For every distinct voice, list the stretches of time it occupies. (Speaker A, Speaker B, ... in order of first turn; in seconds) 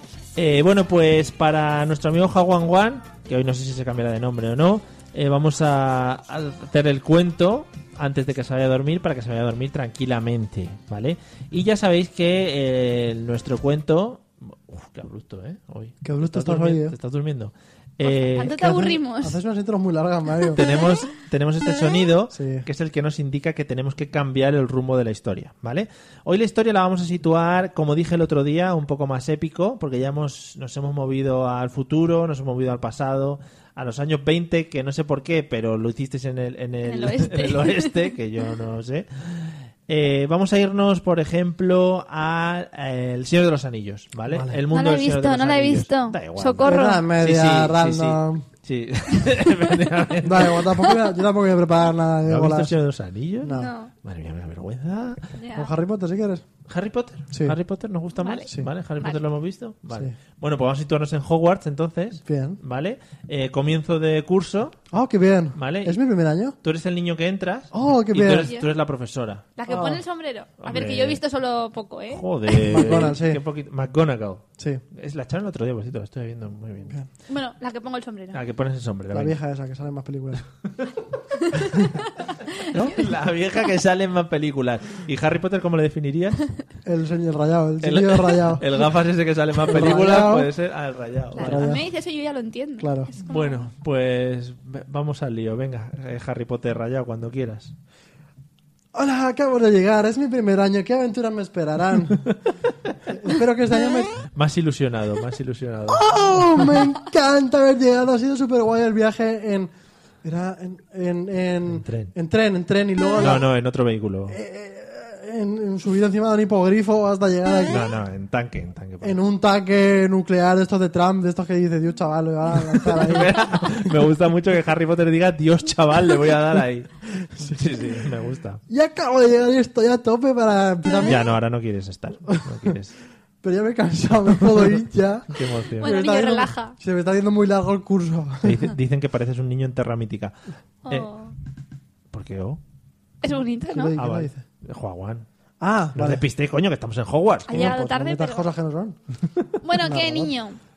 Speaker A: 0.4-18.6, 20.6-50.8, 52.3-55.2, 56.7-64.8, 65.6-66.0, 66.6-69.5, 70.6-71.2, 72.1-76.9, 78.3-79.4, 82.7-86.4, 87.8-91.7, 93.3-97.7, 104.2-106.1, 111.7-112.1, 113.2-114.4, 117.7-119.2, 122.6-128.6, 131.0-133.0, 134.4-134.7, 135.3-136.0, 138.4-140.3, 142.1-142.6, 144.0-145.3, 146.0-147.8
Speaker B: 16.0-17.0, 18.4-20.6, 22.3-22.6, 44.3-44.6, 46.6-48.5, 50.2-52.7, 53.4-53.7, 55.5-56.4, 57.3-57.6, 62.2-62.6, 64.9-66.6, 67.7-68.5, 69.7-70.0, 72.7-73.4, 79.1-80.4, 86.9-88.8, 89.6-90.5, 91.4-91.8, 92.8-93.1, 98.9-102.3, 103.1-104.2, 105.9-109.7, 110.2-113.4, 114.3-117.8, 119.0-123.5, 127.3-127.6, 128.7-131.2, 133.4-138.6, 143.7-144.4, 145.6-146.2, 147.5-149.0, 149.8-150.3
Speaker C: 18.0-19.4, 36.8-38.1, 44.7-47.0, 53.5-53.9, 55.4-55.7, 58.2-58.5, 68.4-68.7, 69.6-73.1, 77.3-78.4, 91.3-93.6, 135.8-136.8, 140.9-141.3, 143.2-143.9, 147.5-148.5, 149.6-150.6